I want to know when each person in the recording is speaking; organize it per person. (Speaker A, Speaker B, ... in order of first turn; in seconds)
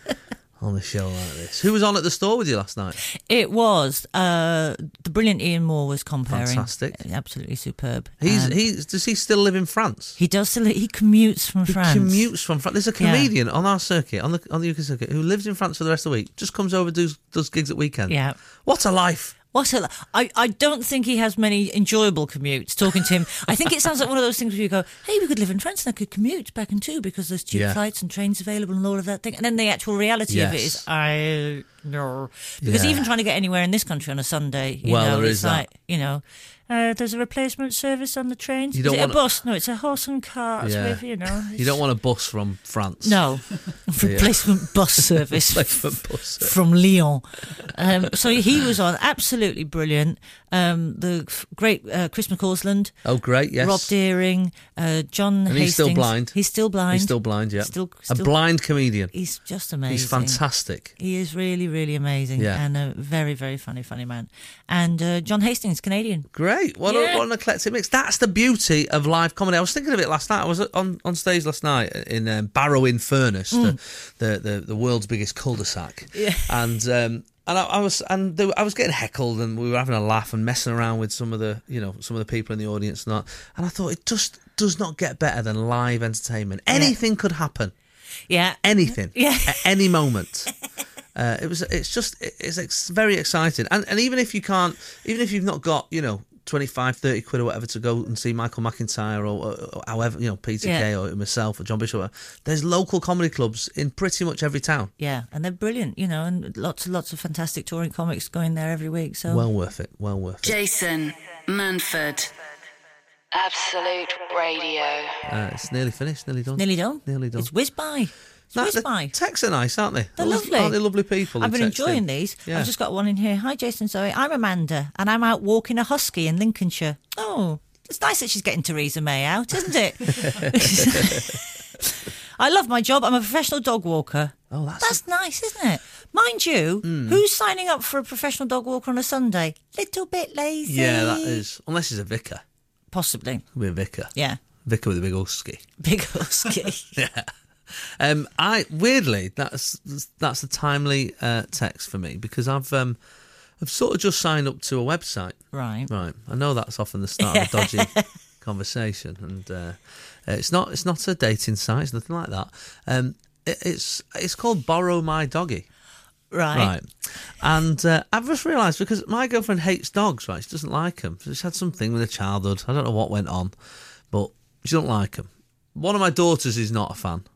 Speaker A: 0.6-3.0, 6.3-7.0, 8.2-10.2, 11.7-19.3, 27.5-27.8, 30.3-30.8, 32.6-33.1, 34.8-35.7, 38.7-39.2, 40.6-43.2, 44.0-46.6, 47.6-48.1, 53.0-53.9, 55.5-56.4, 56.9-59.1, 59.9-61.0, 62.4-62.6, 66.3-87.7, 88.6-90.5, 91.2-104.9, 109.3-110.5, 115.3-117.5, 118.5-122.7, 130.1-131.4, 134.5-135.0, 136.8-137.2, 140.7-142.4, 143.5-144.1, 144.6-145.7, 146.9-153.0, 153.6-155.4, 155.9-165.7, 166.5-173.5, 174.1-177.3
Speaker B: 3.0-8.6, 10.2-12.3, 13.0-13.3, 18.1-18.4, 19.5-41.8, 43.0-52.9, 53.6-58.3, 59.1-60.4, 61.0-66.3, 66.9-67.2, 73.5-73.8, 76.1-76.6, 86.7-87.0, 88.3-89.7, 100.6-100.9, 105.0-109.5, 116.6-119.1, 120.2-120.8, 121.3-141.4, 142.9-143.4, 144.1-144.4, 145.8-146.9, 155.5-155.9, 157.2-158.1, 166.3-166.8
Speaker C: 110.4-112.3, 113.3-115.2